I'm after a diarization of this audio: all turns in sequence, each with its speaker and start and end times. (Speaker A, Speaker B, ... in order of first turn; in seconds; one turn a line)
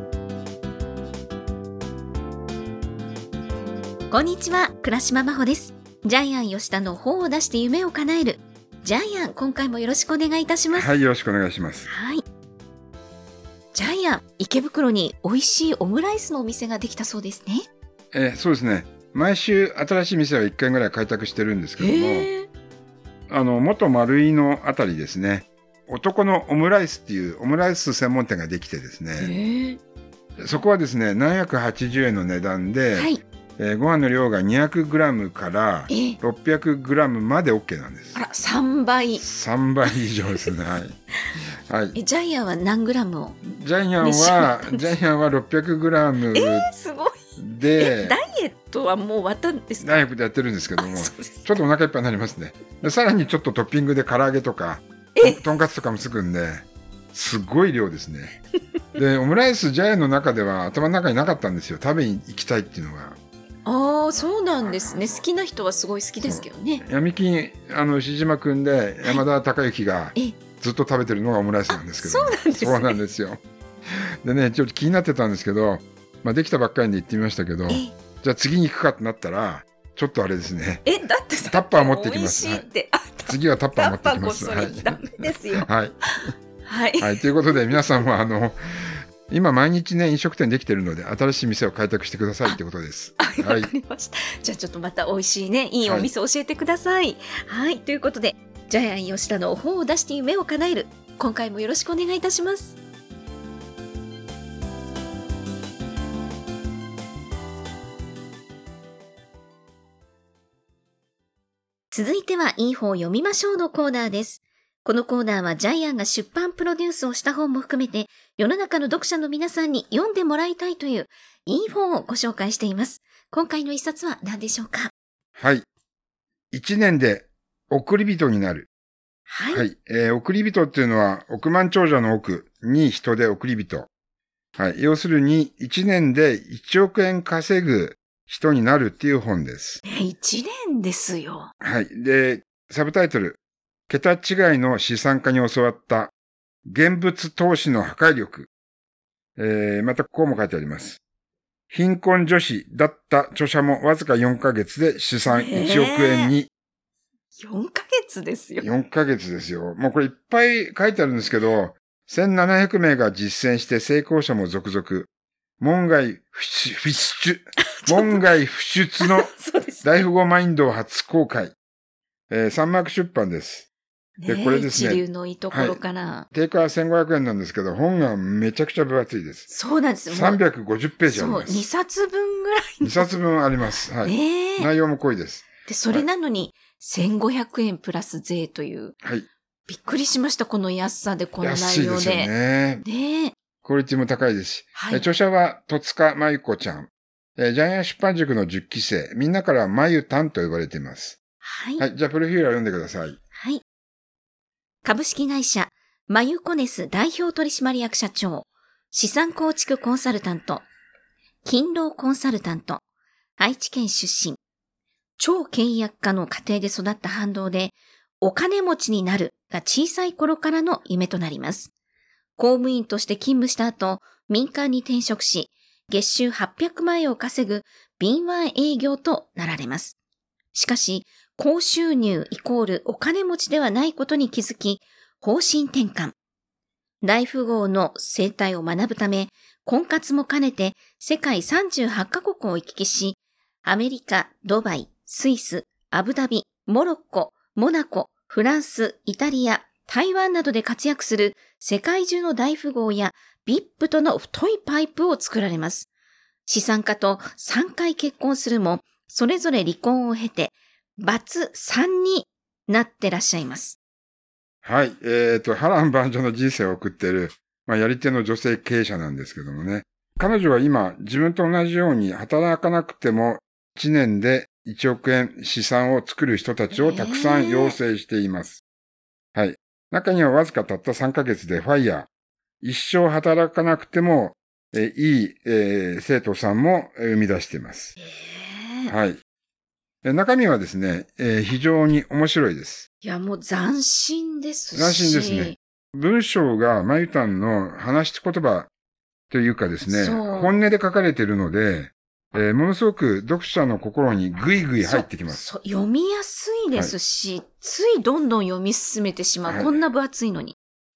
Speaker A: 4.1-10.9
Speaker B: 10.7-11.9
Speaker A: 11.9-12.2
Speaker A: 13.7-17.6
Speaker B: 18.1-22.3
Speaker A: 21.8-22.5
Speaker B: 23.3-29.3
Speaker A: 29.2-29.8
Speaker B: 30.4-38.2
Speaker A: 33.0-33.2
Speaker A: 35.9-36.2
Speaker A: 38.1-39.2
Speaker B: 39.2-41.0
Speaker B: 41.7-42.0
Speaker A: 42.0-43.4
Speaker B: 43.4-46.7
Speaker A: 44.0-45.0
Speaker A: 46.3-47.2
Speaker B: 47.4-48.2
Speaker A: 47.8-50.0
Speaker B: 49.8-58.3
Speaker A: 50.8-51.5
Speaker A: 55.2-55.4
Speaker B: 59.0-63.2
Speaker A: 63.6-66.8
Speaker B: 64.2-65.2
Speaker B: 66.2-73.4
Speaker A: 71.7-73.0
Speaker B: 74.2-80.8
Speaker A: 77.7-77.9
Speaker A: 80.8-87.8
Speaker B: 81.5-82.7
Speaker B: 83.3-86.0
Speaker B: 87.0-93.7
Speaker A: 93.2-102.8
Speaker B: 95.8-96.1
Speaker A: 111.9-124.9
Speaker B: 125.4-125.7
Speaker B: 126.5-128.7
Speaker A: 129.3-129.6
Speaker B: 129.5-133.9
Speaker B: 134.6-139.8
Speaker A: 139.8-141.5
Speaker B: 141.6-143.4
Speaker B: 143.9-146.1
Speaker B: 146.7-148.5
Speaker B: 149.4-151.0
Speaker B: 151.7-156.5
Speaker A: 155.3-156.3
Speaker A: 157.3-158.7
Speaker B: 158.6-165.1
Speaker B: 165.6-171.6
Speaker A: 167.6-168.2
Speaker A: 169.0-169.9
Speaker B: 172.3-173.7
Speaker A: 174.2-176.3
Speaker B: 174.3-175.8
Speaker B: 176.3-179.5
Speaker A: 179.5-180.4
Speaker B: 180.1-181.7
Speaker A: 181.1-183.2
Speaker B: 182.8-186.1
Speaker A: 184.0-184.7
Speaker A: 185.7-188.9
Speaker B: 189.0-189.3
Speaker A: 189.7-192.3
Speaker B: 191.4-192.8
Speaker A: 192.8-193.3
Speaker B: 193.6-201.2
Speaker A: 194.8-195.1
Speaker A: 201.4-201.8
Speaker B: 201.8-203.2
Speaker A: 203.4-203.6
Speaker A: 204.8-210.7
Speaker A: 211.4-212.8
Speaker A: 213.4-214.4
Speaker A: 215.2-221.7
Speaker A: 222.4-230.0
Speaker A: 230.5-236.2
Speaker A: 237.0-255.9
Speaker A: 256.5-263.8
Speaker B: 264.6-278.6
Speaker A: 276.7-277.8
Speaker B: 279.4-282.1
Speaker B: 282.6-287.9
Speaker A: 288.0-288.9
Speaker B: 288.9-289.2
Speaker B: 290.0-292.9
Speaker A: 293.0-295.6
Speaker B: 294.7-298.7
Speaker B: 299.3-305.4
Speaker A: 299.9-300.5
Speaker A: 304.8-310.6
Speaker B: 309.5-309.8